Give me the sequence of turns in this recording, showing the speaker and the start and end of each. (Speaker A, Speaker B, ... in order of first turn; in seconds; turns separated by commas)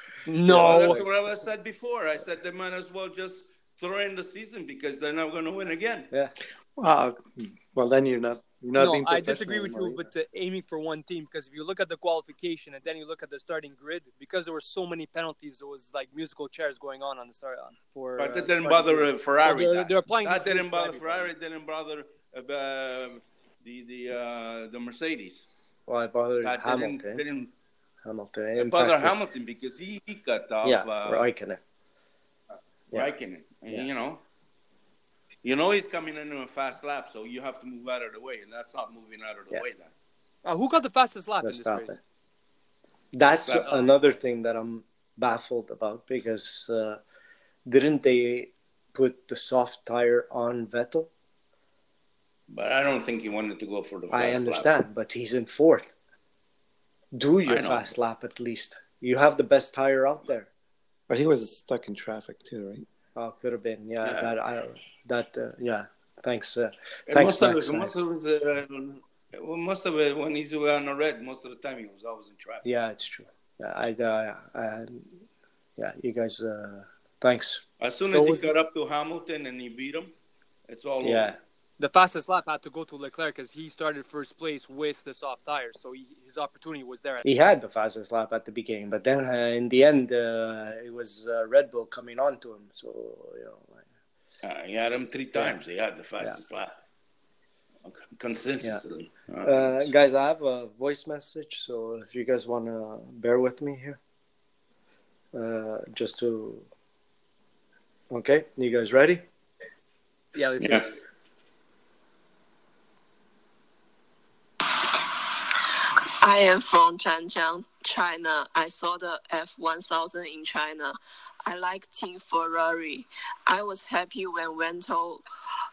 Speaker A: 0.3-1.0, Speaker B: 0.4-1.1, Speaker C: 0.5-6.1, Speaker D: 6.8-10.1, Speaker A: 8.8-21.3, Speaker C: 18.2-25.5, Speaker B: 25.9-27.2, Speaker C: 26.4-27.5, Speaker B: 28.1-29.1, Speaker C: 28.6-31.3, Speaker B: 30.6-31.6, Speaker C: 32.9-34.2, Speaker C: 35.4-39.9, Speaker A: 40.5-42.0, Speaker B: 41.4-42.0, Speaker B: 43.1-47.0, Speaker C: 43.5-43.9, Speaker B: 47.7-51.1, Speaker C: 52.5-54.7, Speaker B: 54.1-55.9, Speaker B: 57.1-60.5, Speaker C: 57.5-57.9, Speaker D: 61.1-62.9, Speaker B: 63.2-67.9, Speaker C: 64.0-64.3, Speaker C: 67.1-72.7, Speaker B: 72.6-75.2, Speaker B: 75.8-78.5, Speaker C: 77.8-80.1, Speaker C: 80.7-81.3, Speaker B: 81.0-81.4, Speaker A: 81.8-87.2, Speaker B: 87.2-93.8, Speaker C: 94.4-96.8, Speaker C: 97.8-99.9, Speaker B: 99.4-104.0, Speaker B: 105.3-106.7, Speaker B: 108.1-109.2, Speaker A: 110.3-110.9, Speaker C: 110.6-110.9, Speaker E: 114.7-125.2